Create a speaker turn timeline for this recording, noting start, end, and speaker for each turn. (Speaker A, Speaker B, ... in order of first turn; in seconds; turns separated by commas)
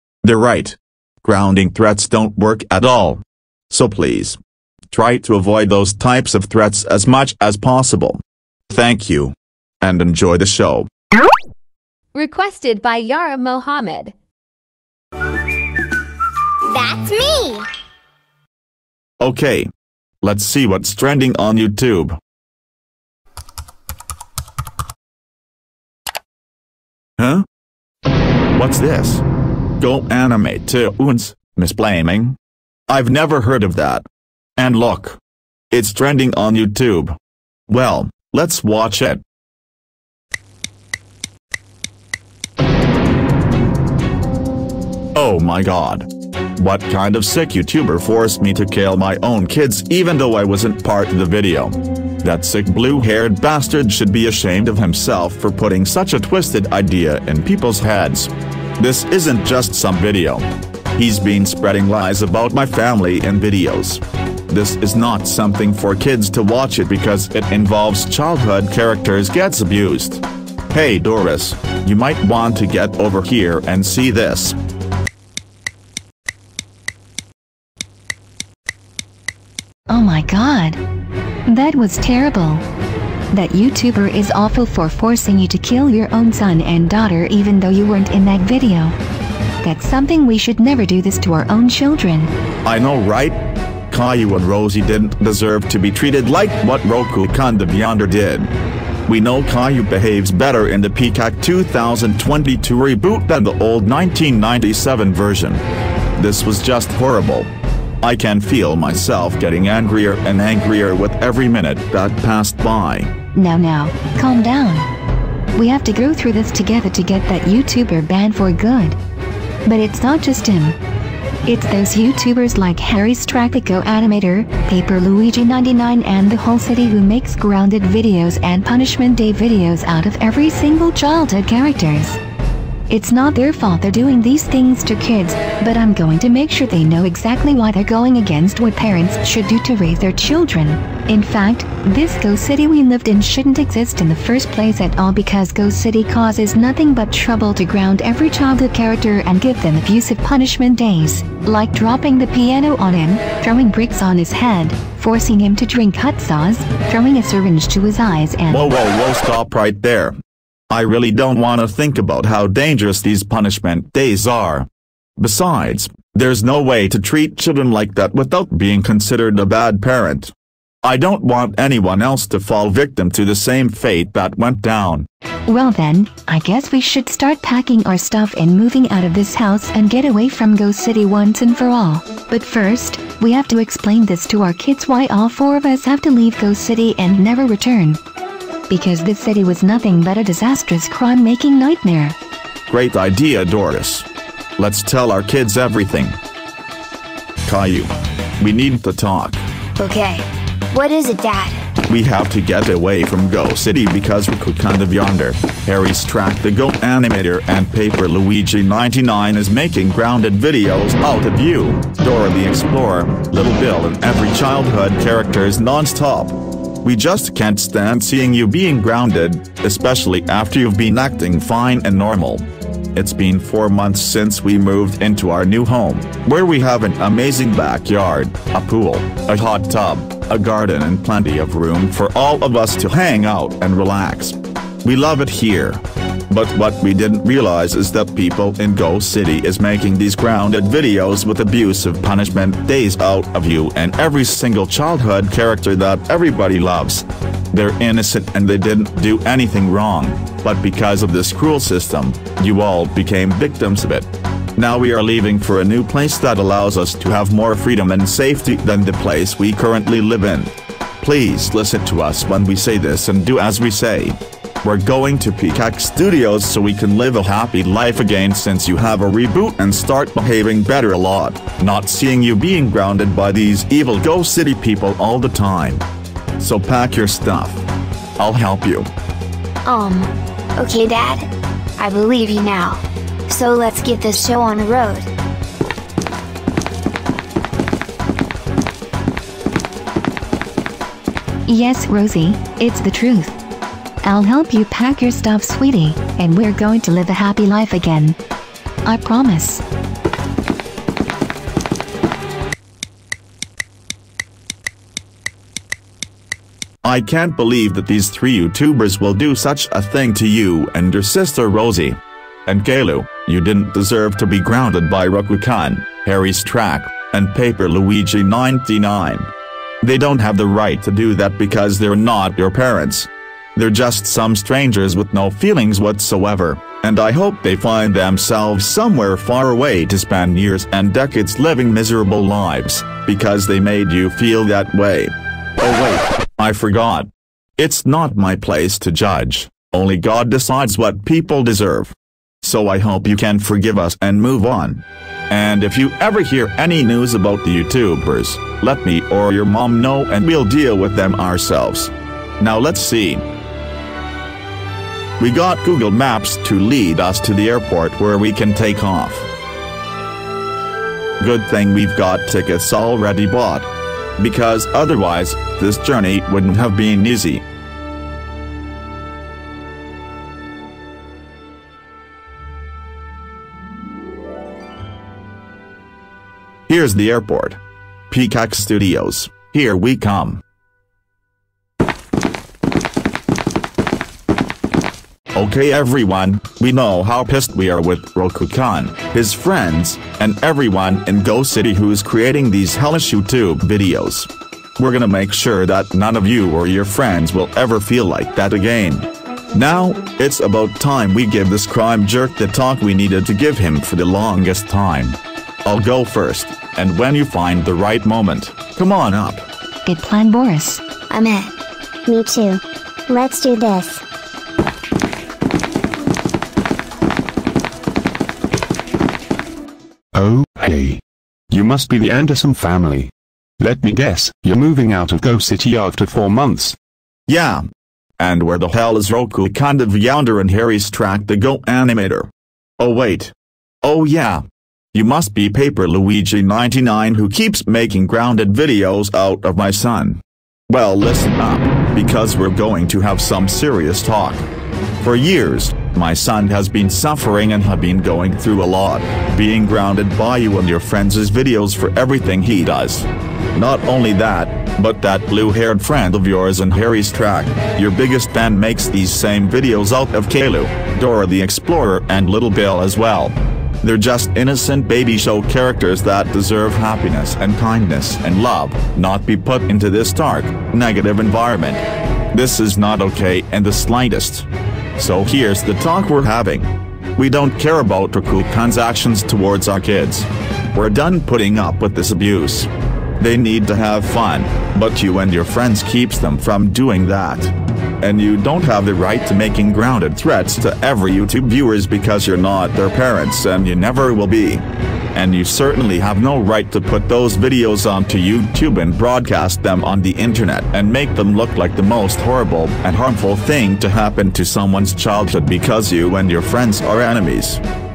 Speaker A: 0.2-4.4, Speaker A: 4.9-10.9, Speaker B: 12.1-14.1, Speaker A: 19.2-19.7, Speaker A: 20.2-22.2, Speaker A: 27.2-27.4, Speaker A: 28.5-29.2, Speaker A: 29.8-32.4, Speaker A: 32.9-34.0, Speaker A: 34.6-35.2, Speaker A: 35.7-37.1, Speaker A: 37.7-39.2, Speaker A: 45.1-74.6, Speaker C: 79.9-80.8, Speaker C: 81.5-82.6, Speaker C: 83.3-89.0, Speaker C: 89.6-92.3, Speaker A: 92.7-93.4, Speaker A: 93.9-98.5, Speaker A: 99.1-105.6, Speaker A: 106.2-107.5, Speaker A: 108.0-113.1, Speaker C: 113.3-114.9, Speaker C: 115.5-119.0, Speaker C: 119.7-120.8, Speaker C: 121.4-132.2, Speaker C: 132.9-158.6, Speaker A: 158.5-160.2, Speaker A: 160.7-164.7, Speaker A: 165.2-170.3, Speaker A: 170.8-175.1, Speaker C: 175.5-188.0, Speaker C: 188.7-192.2, Speaker A: 192.7-194.1, Speaker A: 194.6-196.2, Speaker A: 197.4-199.4, Speaker D: 199.8-201.6, Speaker A: 201.9-275.8, Speaker A: 276.4-277.6, Speaker A: 278.2-278.9, Speaker D: 279.6-285.1, Speaker C: 291.5-293.4, Speaker C: 294.0-298.2, Speaker C: 298.8-299.6, Speaker A: 306.8-319.3, Speaker A: 319.8-353.2, Speaker A: 355.2-359.3, Speaker A: 361.2-367.4, Speaker A: 376.7-380.4, Speaker A: 385.3-409.4, Speaker C: 409.9-410.8, Speaker D: 411.1-411.5, Speaker E: 412.1-414.0, Speaker F: 420.1-426.8, Speaker A: 427.3-427.6, Speaker A: 428.2-434.4, Speaker A: 434.9-444.5, Speaker A: 445.0-507.6